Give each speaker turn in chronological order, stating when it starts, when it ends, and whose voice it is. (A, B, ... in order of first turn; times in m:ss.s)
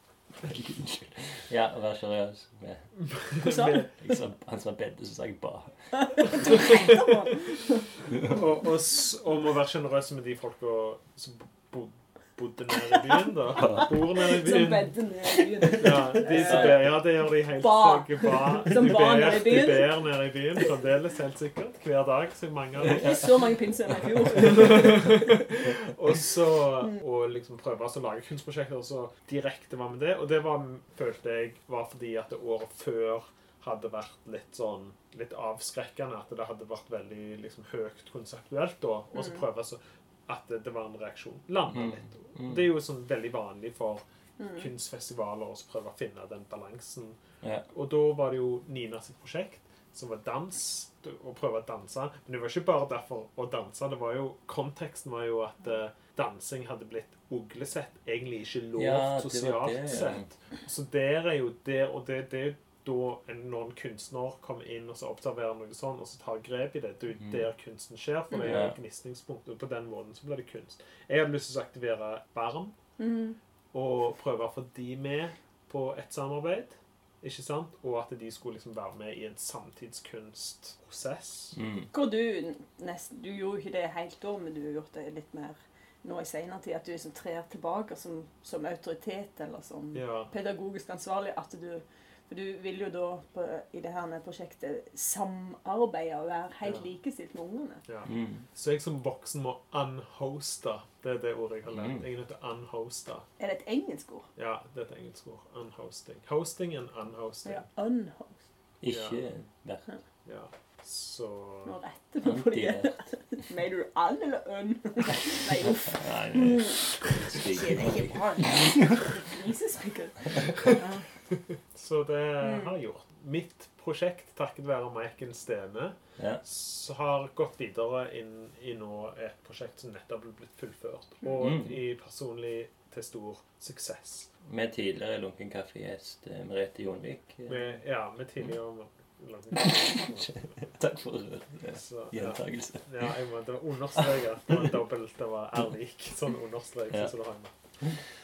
0:00.4-0:02.9 A
0:03.0-0:03.9 B
0:03.4-0:03.9 C
0:04.0-0:06.3 A
0:06.2-0:07.9 C
0:06.7-0:07.0 B
0:08.2-0:14.9 B
0:13.6-0:13.8 A
0:13.6-0:20.0 C
0:15.8-0:23.4 B
0:22.8-0:25.2 C
0:24.3-0:47.2 B
0:41.7-0:42.7 A
0:44.4-0:44.7 C
0:47.7-1:12.7 B
0:58.8-1:00.3 A
1:08.4-1:08.7 A
1:13.0-1:13.4 C
1:13.7-1:21.6 B
1:21.5-1:21.9 A
1:21.9-1:37.8 C
1:29.9-1:30.3 B
1:37.9-1:43.3 B
1:38.0-1:38.4 A
1:41.7-1:42.0 A
1:43.4-1:44.3 C
1:44.4-1:47.6 B
1:47.4-1:48.4 C
1:48.8-1:49.9 A
1:48.9-1:49.2 B
1:50.2-1:51.8 B
1:51.6-2:01.0 C
1:52.2-1:53.0 A
1:55.6-1:59.1 A
2:01.7-2:14.3 B
2:02.4-2:02.7 C
2:06.2-2:06.4 A
2:11.4-2:11.8 A
2:14.4-2:17.8 A
2:17.5-2:20.5 B
2:19.6-2:23.1 A
2:21.7-2:27.5 B